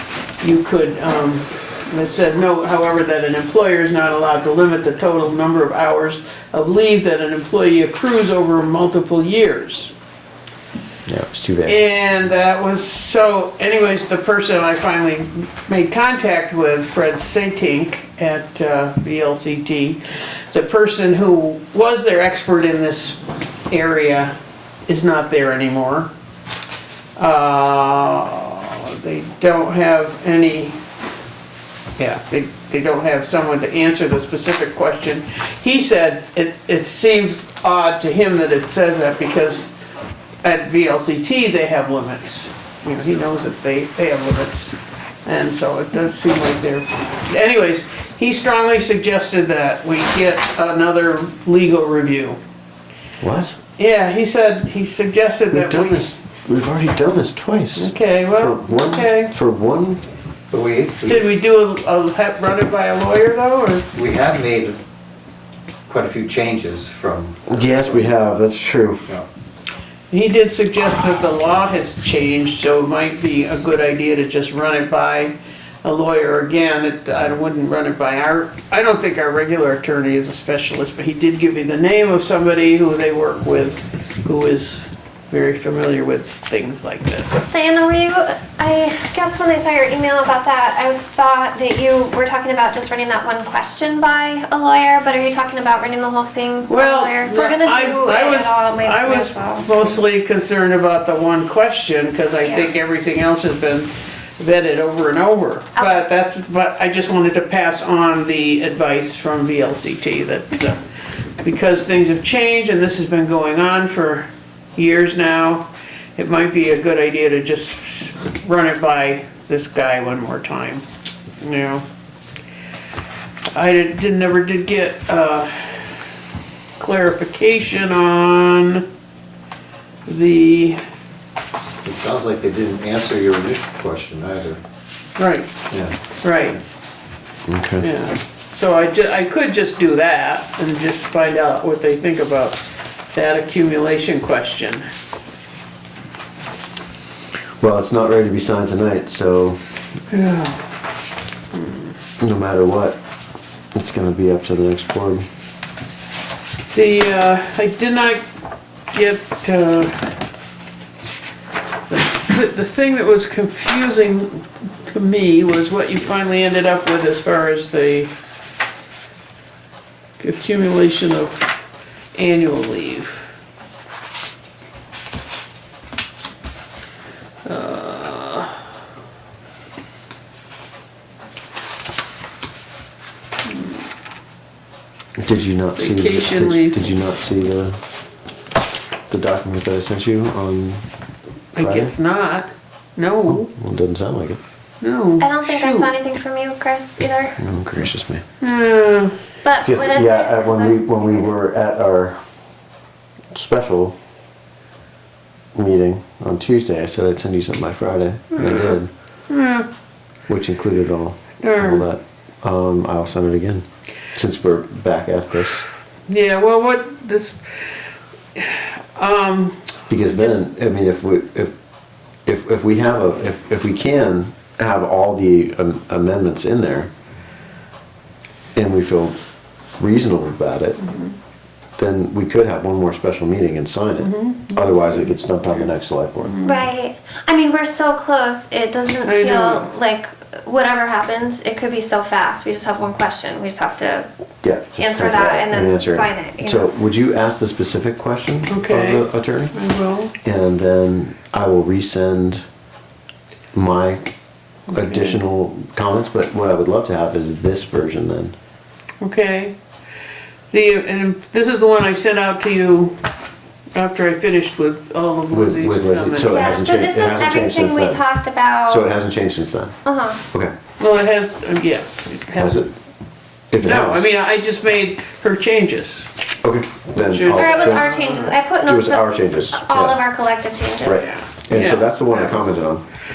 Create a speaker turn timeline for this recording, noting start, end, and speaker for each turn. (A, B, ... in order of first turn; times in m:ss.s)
0:00.4-0:09.9 A
0:11.1-0:11.8 B
0:11.6-0:24.3 A
0:24.9-0:26.1 A
0:27.2-0:30.8 A
0:32.0-0:39.7 A
0:40.4-0:52.4 A
0:53.2-0:53.6 B
0:53.8-0:56.0 A
0:55.5-1:00.0 B
0:57.8-0:59.3 A
1:00.5-1:01.2 C
1:01.0-1:03.8 A
1:03.9-1:04.8 C
1:05.9-1:08.1 C
1:07.5-1:09.0 B
1:10.1-1:27.4 A
1:27.5-1:40.0 D
1:36.7-1:50.8 A
1:42.4-1:42.7 D
1:45.8-1:46.0 D
1:51.4-2:00.8 A
2:01.4-2:01.8 A
2:03.5-2:06.0 A
2:06.8-2:08.8 A
2:10.0-2:10.8 A
2:11.8-2:14.6 C
2:15.2-2:15.6 A
2:16.2-2:16.6 A
2:17.4-2:17.9 B
2:17.8-2:22.6 A
2:23.1-2:24.9 A
2:27.6-2:29.7 B
2:30.1-2:30.7 A
2:31.5-2:31.9 A
2:32.2-2:33.0 B
2:33.7-2:35.3 B
2:36.7-2:38.2 A
2:38.9-2:40.1 A
2:41.9-2:48.1 A
2:50.2-2:51.5 A
2:52.1-2:53.2 A
2:57.4-2:58.6 A
3:05.2-3:07.8 B
3:05.8-3:06.9 A
3:09.1-3:10.8 B
3:11.5-3:13.5 A
3:11.6-3:11.9 B
3:13.5-3:14.4 B
3:14.8-3:15.9 A
3:15.2-3:17.4 D
3:17.4-3:18.2 B
3:18.4-3:19.2 A
3:19.4-3:21.3 D
3:19.6-3:22.2 B
3:23.3-3:24.0 B
3:25.5-3:28.9 B
3:28.4-3:28.8 A
3:29.3-3:29.7 A
3:30.3-3:35.6 B
3:31.4-3:31.8 A
3:36.1-3:37.8 A
3:38.3-3:40.4 A
3:39.9-3:41.5 B
3:42.2-3:46.9 B
3:48.5-3:49.2 B
3:49.8-3:50.8 B
3:50.8-3:51.1 A
3:51.8-3:56.4 B
3:54.0-3:55.7 A
3:56.2-3:56.6 A
3:56.4-4:04.1 D
3:59.0-3:59.7 A
4:04.4-4:09.5 B
4:04.8-4:06.7 D
4:08.5-4:10.1 A
4:10.2-4:12.4 B
4:13.5-4:14.1 B
4:14.7-4:18.3 B
4:14.7-4:15.2 A
4:19.0-4:19.5 A
4:20.5-4:23.0 A
4:23.7-4:26.4 A
4:25.3-4:28.0 B
4:26.2-4:28.9 D
4:28.7-4:29.8 B
4:29.8-4:30.2 D
4:30.8-4:32.6 A
4:32.4-4:32.7 B
4:33.5-4:34.0 B
4:33.6-4:36.1 A
4:36.4-4:40.0 B
4:37.0-4:38.3 A
4:37.3-4:41.0 D
4:40.8-4:42.8 B
4:41.1-4:42.4 A